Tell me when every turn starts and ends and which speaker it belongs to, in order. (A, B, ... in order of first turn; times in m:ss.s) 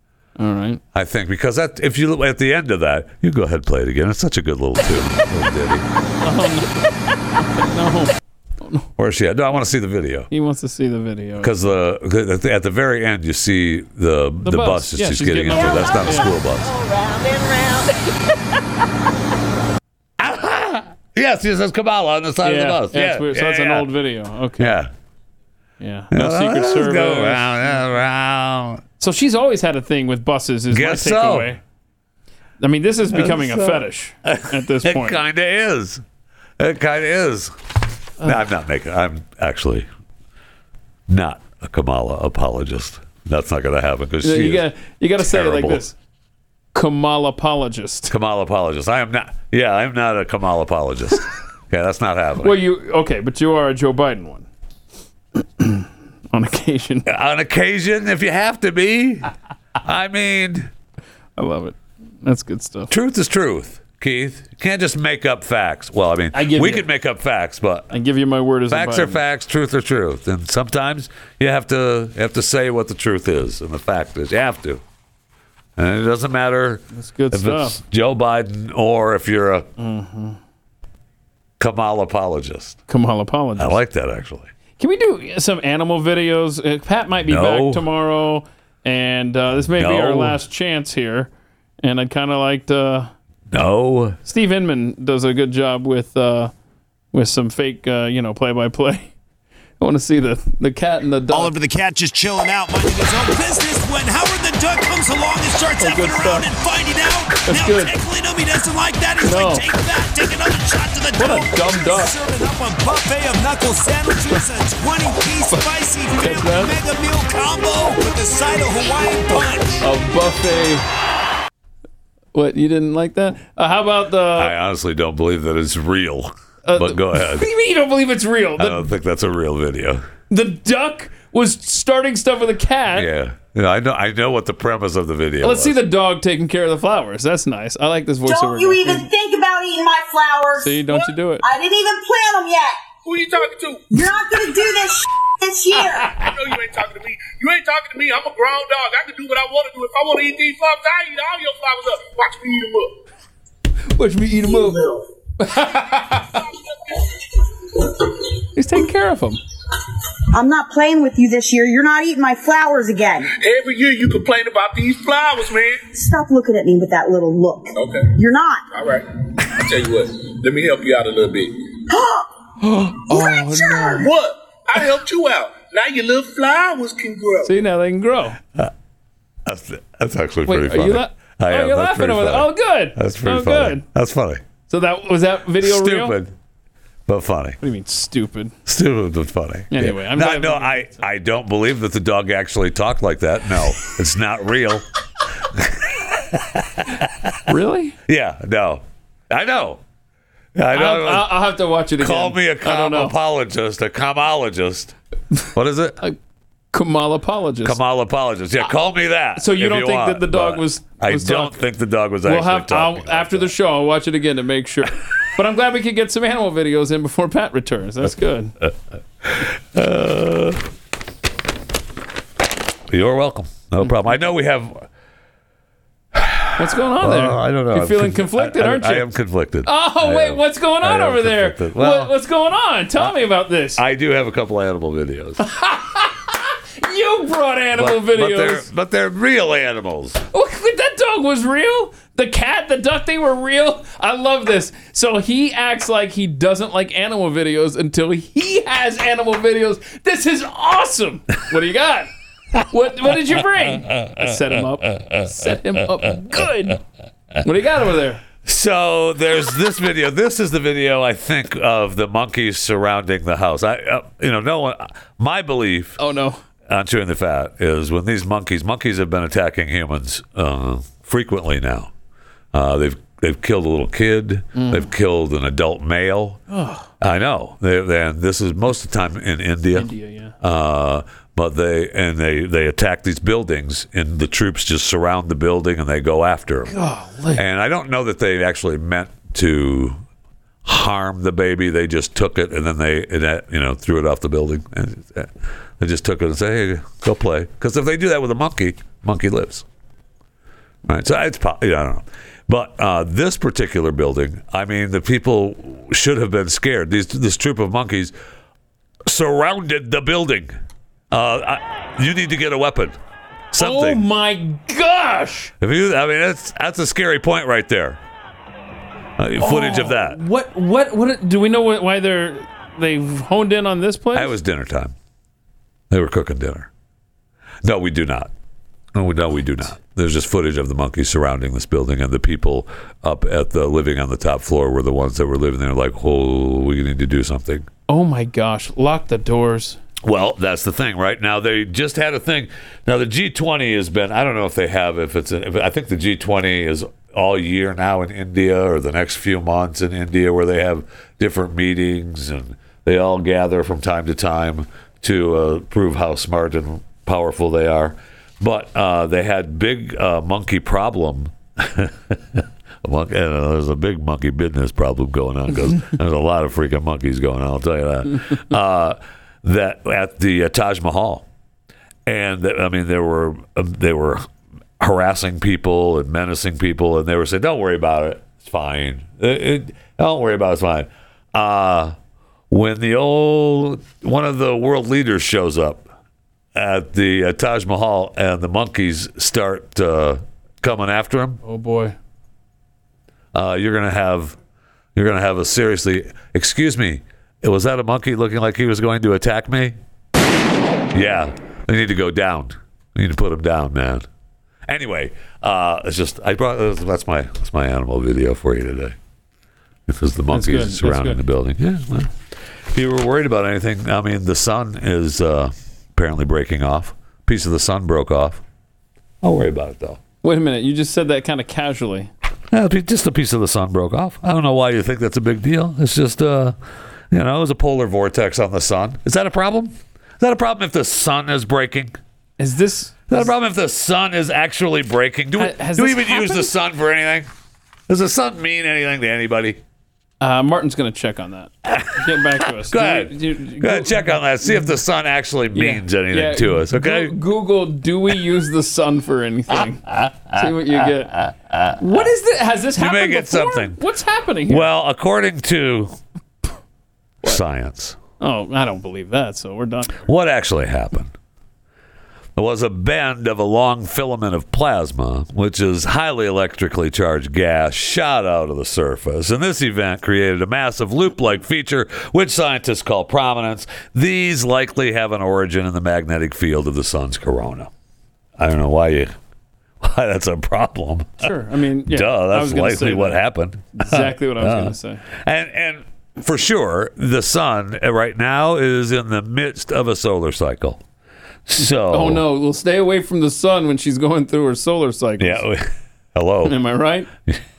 0:00.4-0:00.8 A
0:00.9-0:05.8 B
0:06.2-0:08.9 A
0:09.0-0:10.3 B
0:10.3-0:11.5 A
0:11.4-0:16.7 B
0:14.4-0:16.3 A
0:15.5-0:18.1 C
0:20.2-0:23.9 B
0:22.4-0:24.8 A
0:24.6-0:24.9 B
0:25.8-0:27.7 A
0:26.1-0:28.8 B
0:29.0-0:31.6 A
0:30.7-0:31.5 B
0:32.6-0:35.2 A
0:33.1-0:36.0 B
0:36.6-0:37.5 B
0:38.2-0:39.9 B
0:41.1-0:44.7 B
0:44.2-0:46.0 A
0:45.2-0:45.9 B
0:46.7-0:48.1 A
0:48.1-0:52.6 B
0:52.4-0:54.5 A
0:55.4-0:57.1 A
0:57.0-0:59.3 B
0:59.8-1:00.7 B
1:01.4-1:02.9 A
1:02.9-1:07.9 B
1:06.3-1:06.9 A
1:07.9-1:09.2 A
1:08.7-1:14.8 B
1:15.8-1:19.7 B
1:16.9-1:17.8 A
1:19.8-1:20.4 A
1:21.6-1:22.8 B
1:22.9-1:23.8 A
1:23.6-1:24.5 B
1:24.8-1:31.3 A
1:27.2-1:27.9 B
1:29.7-1:30.4 B
1:31.8-1:33.1 A
1:33.5-1:34.2 B
1:34.2-1:36.5 A
1:37.1-1:39.1 A
1:39.8-1:41.5 A
1:41.3-1:59.8 D
1:45.8-1:46.5 A
1:47.4-1:48.0 A
1:49.2-1:49.6 A
1:51.1-1:52.2 A
1:55.5-1:56.8 A
1:59.3-2:00.8 A
2:02.3-2:04.5 A
2:04.4-2:07.5 B
2:06.6-2:08.9 A
2:08.6-2:10.0 B
2:10.3-2:13.1 A
2:12.9-2:15.8 B
2:15.4-2:19.1 A
2:18.2-2:20.8 E
2:20.6-2:21.4 A
2:21.4-2:22.8 E
2:23.0-2:23.8 F
2:23.9-2:26.1 E
2:26.2-2:33.0 F
2:33.9-2:36.4 A
2:34.5-2:35.0 E
2:38.5-2:39.4 A
2:40.3-2:43.3 E
2:43.4-2:45.8 F
2:45.9-2:48.6 E
2:47.7-2:48.1 F
2:48.7-2:51.6 F
2:51.9-2:52.3 E
2:52.6-2:54.1 A
2:53.1-2:54.1 E
2:54.0-2:57.6 F
2:57.4-2:58.4 A
2:59.4-3:04.4 B
3:00.4-3:03.8 A
3:04.7-3:06.2 A
3:05.6-3:06.3 B
3:07.1-3:07.6 B
3:07.6-3:08.5 A
3:08.6-3:14.8 B
3:09.7-3:11.0 A
3:15.5-3:17.3 B
3:17.5-3:18.0 A
3:18.1-3:19.8 B
3:20.5-3:21.4 B
3:20.7-3:23.1 A
3:22.0-3:24.9 B
3:25.5-3:26.0 B
3:26.7-3:27.8 A
3:27.6-3:33.5 B
3:29.4-3:31.6 A
3:32.2-3:38.5 A
3:39.2-3:40.6 B
3:42.9-3:44.9 B
3:46.1-3:52.1 B
3:46.6-3:49.1 A
3:49.6-3:53.8 A
3:53.8-3:55.4 B
3:55.4-3:58.7 A
3:57.7-4:00.2 B
4:00.3-4:12.1 A
4:12.7-4:16.8 A
4:13.9-4:15.3 B
4:17.4-4:18.2 A
4:18.4-4:26.0 B
4:26.0-4:26.4 A
4:26.7-4:31.9 B
4:32.5-4:36.4 B
4:34.5-4:34.9 A
4:36.5-4:36.9 A
4:37.0-4:39.9 B
4:39.7-4:40.3 A
4:40.4-4:46.7 B
4:46.7-4:47.4 A
4:47.3-4:50.0 B
4:50.6-4:59.6 B
5:00.8-5:08.1 B
5:09.0-5:10.5 B
5:11.1-5:13.0 B
5:13.5-5:14.0 B
5:13.6-5:15.5 A
5:15.6-5:18.0 B
5:19.2-5:20.2 B
5:19.4-5:24.3 A
5:24.1-5:24.9 B
5:25.9-5:26.7 B
5:27.6-5:28.3 B
5:28.9-5:37.7 B
5:37.9-5:39.8 A
5:40.0-6:11.3 B
6:12.0-6:14.3 B
6:14.8-6:22.0 B
6:22.5-6:25.9 B
6:26.5-6:31.4 B
6:31.4-6:32.0 A
6:33.3-6:34.4 B
6:34.9-6:39.8 B
6:40.9-6:44.0 B
6:44.7-6:49.0 B
6:49.9-6:52.1 B
6:50.3-6:51.2 A
6:52.7-6:58.4 B
6:59.2-7:00.0 B
7:00.2-7:02.1 A
7:02.5-7:06.6 B
7:07.1-7:12.0 B
7:12.4-7:13.3 A
7:13.1-7:17.3 B
7:15.4-7:16.5 A
7:17.9-7:19.6 B
7:20.2-7:24.7 A
7:21.6-7:27.1 B
7:25.5-7:31.2 A
7:30.0-7:31.8 B
7:31.8-7:34.7 A
7:32.8-7:33.8 B
7:34.5-7:36.0 B
7:37.2-7:38.0 B
7:38.2-7:40.0 A
7:40.1-7:41.1 B
7:42.4-7:57.7 B
7:58.4-7:59.1 B
7:59.8-8:01.3 B
8:01.2-8:03.2 A
8:01.9-8:10.8 B
8:03.7-8:05.0 A
8:11.4-8:12.2 B
8:11.6-8:15.4 A
8:15.2-8:16.6 B
8:16.4-8:17.1 A